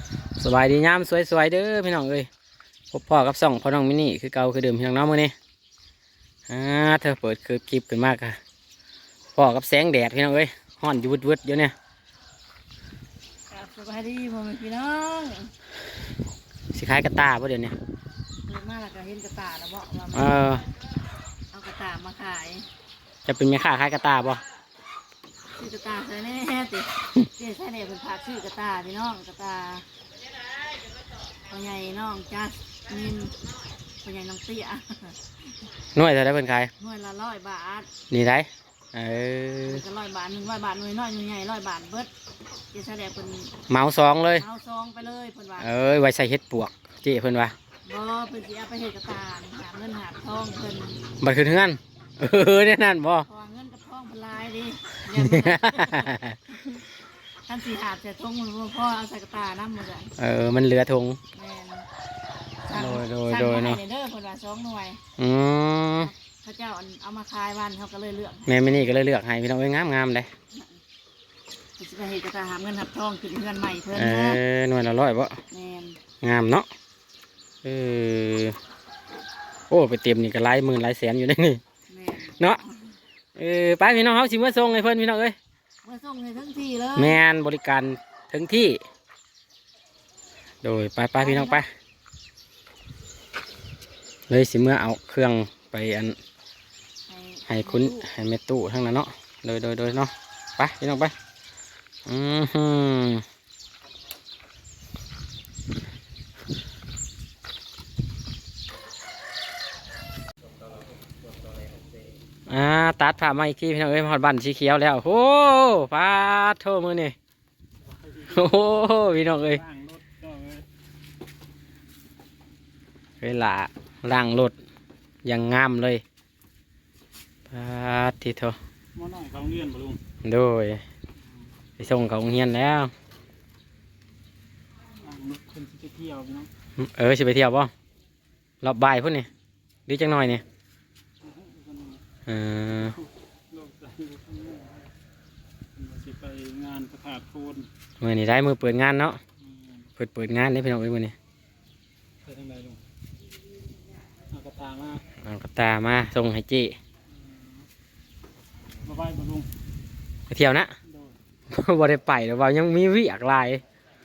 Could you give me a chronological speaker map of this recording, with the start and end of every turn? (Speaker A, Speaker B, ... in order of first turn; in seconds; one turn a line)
Speaker A: 0.4-2.3
Speaker A: 2.9-5.3
Speaker A: 6.5-8.4
Speaker A: 9.4-11.7
Speaker B: 13.5-15.5
Speaker A: 16.7-17.8
Speaker B: 18.4-20.3
Speaker A: 20.1-20.6
Speaker B: 21.5-22.7
Speaker A: 23.3-24.4
Speaker B: 25.6-29.9
Speaker B: 31.5-33.4
Speaker B: 34.0-35.2
Speaker A: 36.0-36.7
Speaker B: 36.8-37.9
Speaker A: 38.1-39.9
Speaker B: 39.7-42.1
Speaker B: 42.7-43.5
Speaker A: 43.7-44.5
Speaker B: 44.4-45.7
Speaker A: 45.6-47.5
Speaker B: 47.9-51.0
Speaker A: 51.2-53.3
Speaker B: 53.2-56.0
Speaker A: 55.0-56.4
Speaker B: 57.5-60.1
Speaker A: 60.2-61.2
Speaker B: 61.4-61.9
Speaker B: 62.6-65.0
Speaker A: 62.7-63.8
Speaker A: 65.2-66.1
Speaker B: 66.0-68.8
Speaker A: 68.5-70.3
Speaker B: 71.8-74.4
Speaker A: 73.9-75.4
Speaker B: 75.5-76.0
Speaker A: 76.2-76.7
Speaker A: 77.6-78.5
Speaker A: 79.7-81.6
Speaker B: 81.9-82.8
Speaker A: 82.3-82.6
Speaker A: 83.4-85.4
Speaker B: 85.8-87.2
Speaker A: 87.0-88.8
Speaker A: 90.6-91.7
Speaker B: 91.2-91.6
Speaker A: 94.3-96.2
Speaker B: 97.1-98.1
Speaker A: 97.5-101.1
Speaker A: 102.1-103.2
Speaker A: 112.5-117.1
Speaker C: 117.8-118.4
Speaker A: 118.3-119.6
Speaker C: 119.6-120.7
Speaker A: 123.2-124.6
Speaker A: 125.2-126.0
Speaker A: 127.5-128.6
Speaker C: 128.9-130.0
Speaker A: 130.2-130.8
Speaker A: 131.8-132.9
Speaker C: 135.0-136.5
Speaker A: 136.8-137.7
Speaker A: 138.6-139.3
Speaker A: 139.9-140.4
Speaker C: 141.2-142.0
Speaker A: 142.3-143.0
Speaker C: 143.5-144.9
Speaker C: 145.8-147.7
Speaker A: 148.0-149.2
Speaker C: 149.4-149.8
Speaker A: 150.0-151.2
Speaker C: 152.2-152.8
Speaker C: 154.3-155.0
Speaker A: 155.2-156.8
Speaker C: 157.1-157.7
Speaker C: 158.8-159.5
Speaker A: 160.3-160.7
Speaker C: 160.9-161.2
Speaker A: 161.5-163.6